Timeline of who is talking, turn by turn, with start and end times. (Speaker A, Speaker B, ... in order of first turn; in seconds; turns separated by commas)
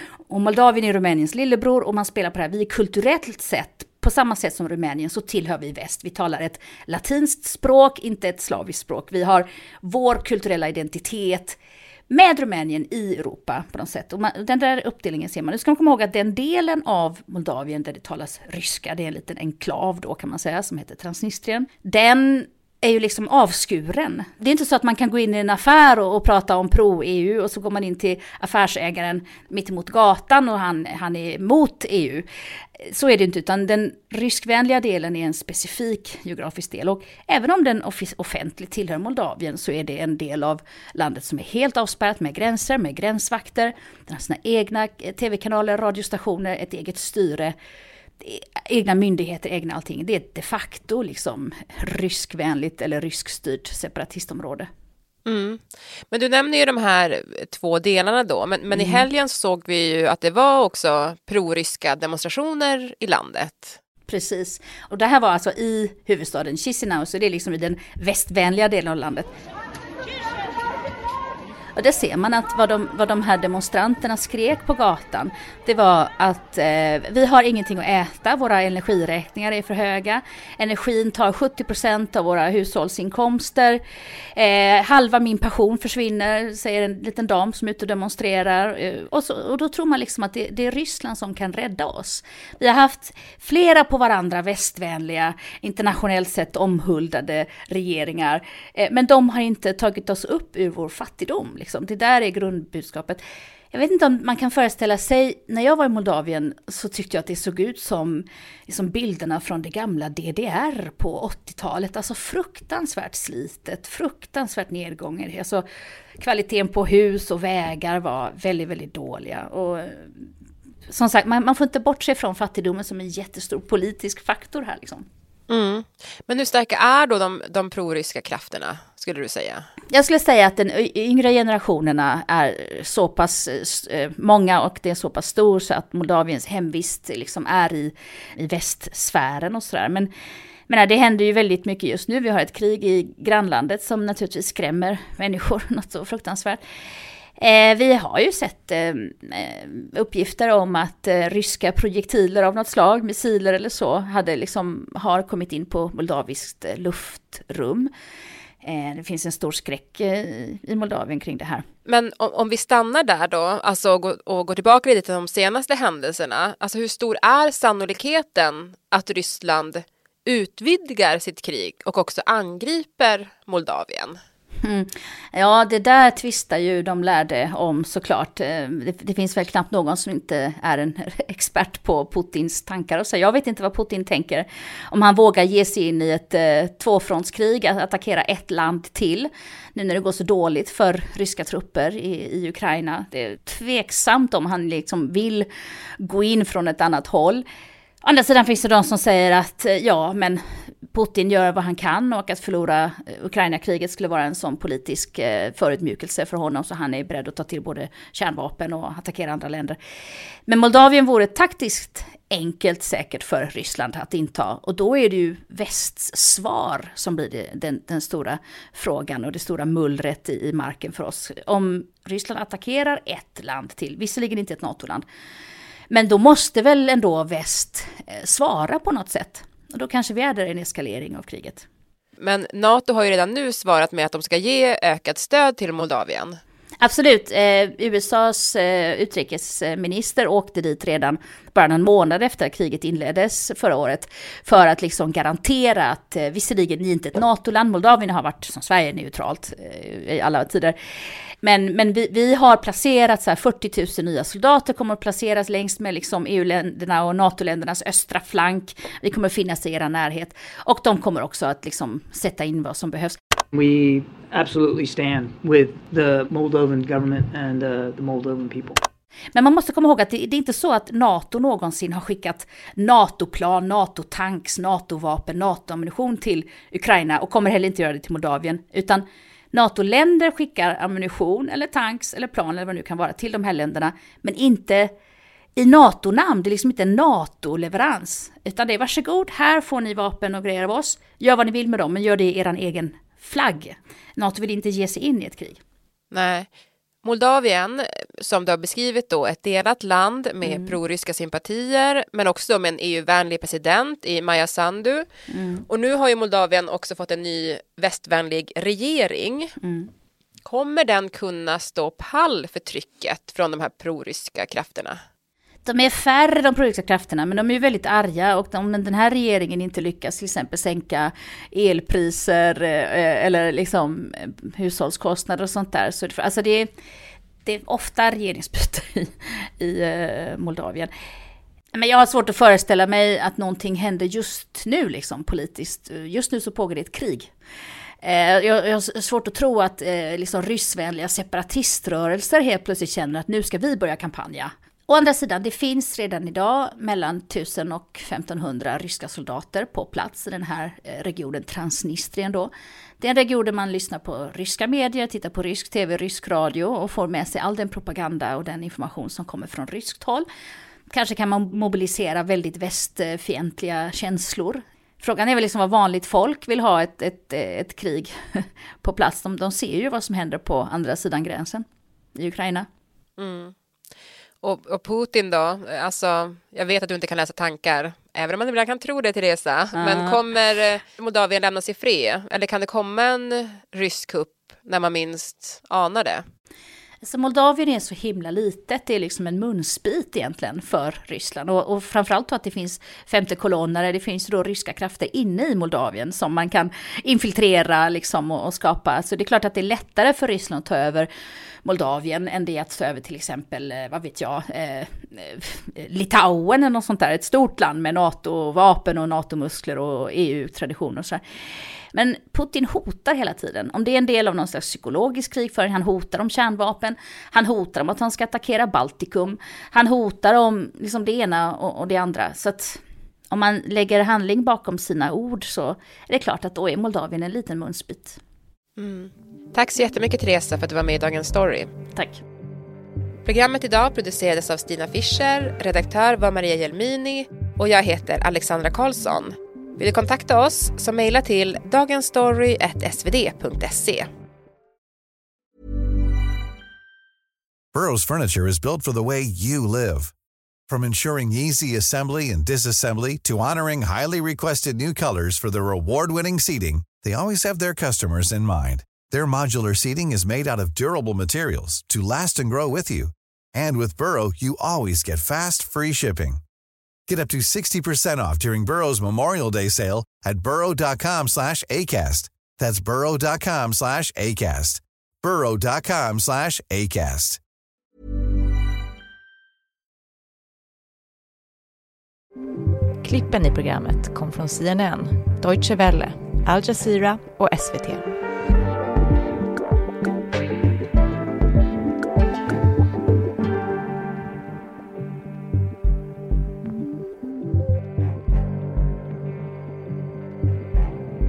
Speaker A: 0.3-32.3, Speaker A: 32.8-47.6, Speaker A: 48.2-54.7, Speaker B: 55.3-63.8, Speaker A: 58.7-59.1, Speaker A: 64.1-69.3, Speaker A: 71.8-83.8, Speaker A: 84.3-103.2, Speaker A: 103.7-115.7, Speaker A: 116.2-120.3, Speaker A: 120.9-125.1, Speaker B: 125.5-129.6, Speaker A: 129.9-140.1, Speaker A: 140.7-146.6, Speaker A: 147.4-157.9, Speaker A: 158.6-161.6, Speaker B: 161.9-174.2, Speaker A: 174.6-195.5, Speaker A: 196.0-197.4, Speaker A: 198.0-209.8, Speaker A: 210.5-225.1, Speaker A: 225.9-231.7, Speaker B: 232.2-236.4, Speaker A: 236.8-250.8, Speaker A: 251.4-263.2, Speaker C: 263.5-268.8, Speaker A: 269.4-284.9, Speaker A: 285.6-295.6, Speaker B: 296.1-296.5, Speaker B: 297.0-305.1, Speaker A: 300.4-300.8, Speaker A: 305.3-305.7, Speaker B: 305.7-309.5, Speaker A: 309.6-309.9, Speaker B: 310.4-315.0, Speaker A: 315.6-326.7, Speaker A: 327.4-330.9, Speaker A: 331.8-337.3, Speaker A: 338.0-360.3, Speaker A: 360.9-372.7, Speaker B: 373.2-373.5, Speaker B: 374.4-386.2, Speaker A: 379.8-380.2, Speaker A: 387.0-401.1, Speaker A: 401.6-411.2, Speaker A: 411.9-428.2, Speaker B: 428.8-431.7, Speaker B: 433.3-444.1, Speaker D: 447.7-450.1, Speaker D: 450.7-466.4, Speaker D: 467.1-477.4, Speaker E: 483.0-488.1